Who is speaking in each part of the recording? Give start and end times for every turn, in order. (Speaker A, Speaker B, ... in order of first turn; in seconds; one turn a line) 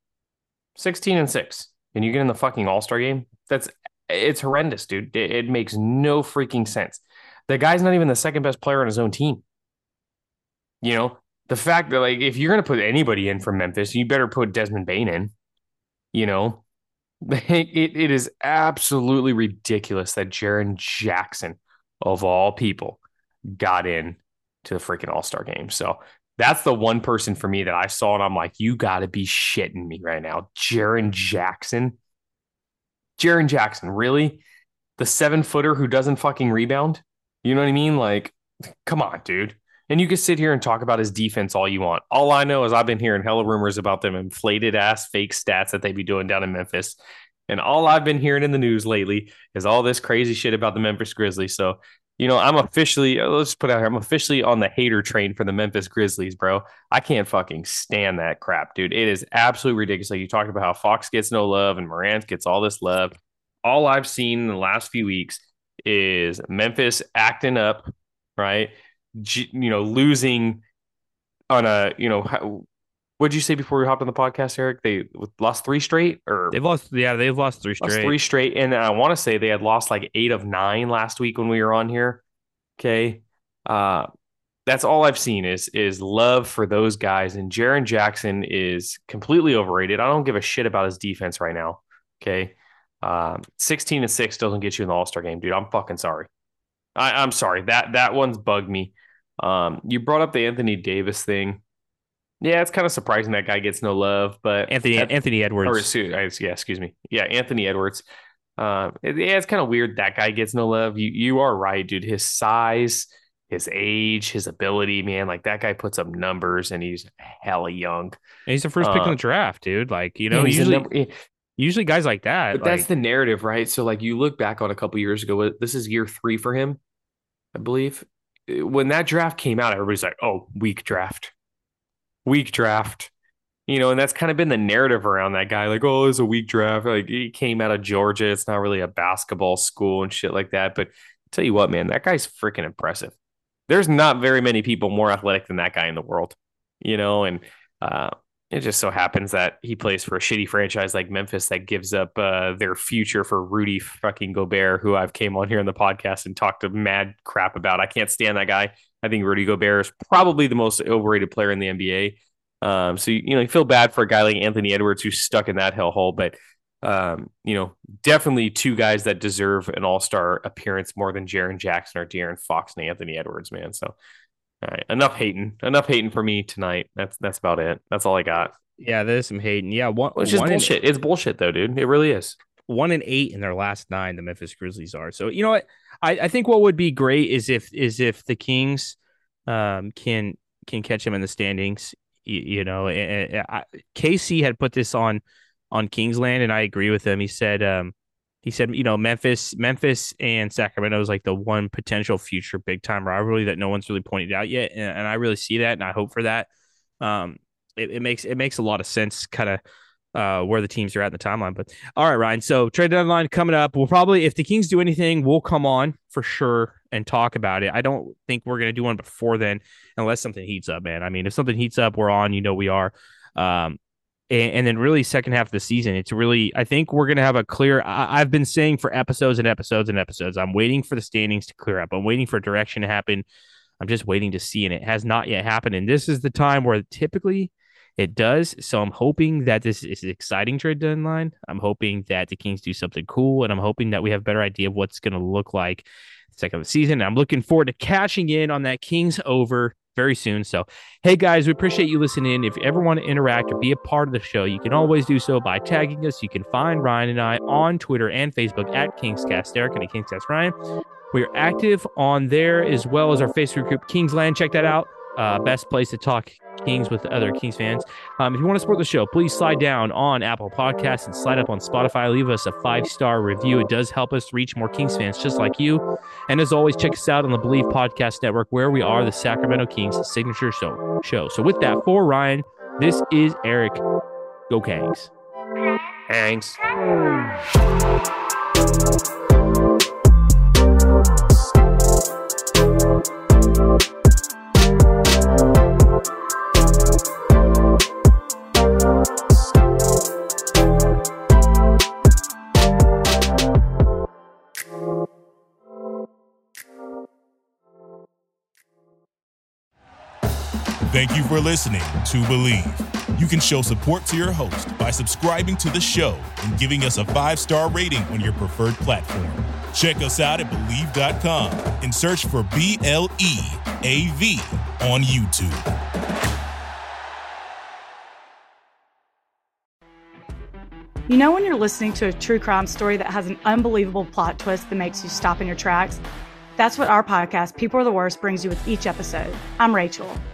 Speaker A: 0.8-9.4
Speaker A: 10.8-15.3
Speaker A: 16.1-16.6
Speaker A: 17.2-23.0
Speaker A: 23.5-32.0
Speaker A: 33.2-34.4
Speaker A: 35.0-70.6
Speaker A: 71.5-72.7
Speaker A: 73.2-76.5
Speaker B: 76.5-78.2
Speaker A: 77.8-82.2
Speaker A: 82.8-84.1
Speaker A: 84.7-96.3
Speaker A: 97.0-101.6
Speaker A: 102.4-105.1
Speaker B: 104.7-105.9
Speaker A: 105.7-108.0
Speaker A: 108.6-118.2
Speaker B: 118.5-120.9
Speaker A: 118.8-119.2
Speaker A: 120.3-121.1
Speaker B: 121.6-122.9
Speaker A: 122.5-126.8
Speaker A: 127.5-131.3
Speaker A: 132.3-133.1
Speaker A: 133.7-143.1
Speaker A: 143.7-174.0
Speaker A: 174.6-178.5
Speaker B: 178.8-180.8
Speaker A: 180.2-182.4
Speaker B: 182.7-206.5
Speaker B: 207.0-209.6
Speaker B: 210.1-223.8
Speaker B: 224.3-233.2
Speaker B: 233.8-260.5
Speaker B: 261.1-283.8
Speaker B: 284.5-285.1
Speaker A: 286.1-286.6
Speaker C: 310.9-325.6
Speaker D: 331.1-336.0
Speaker D: 336.6-340.2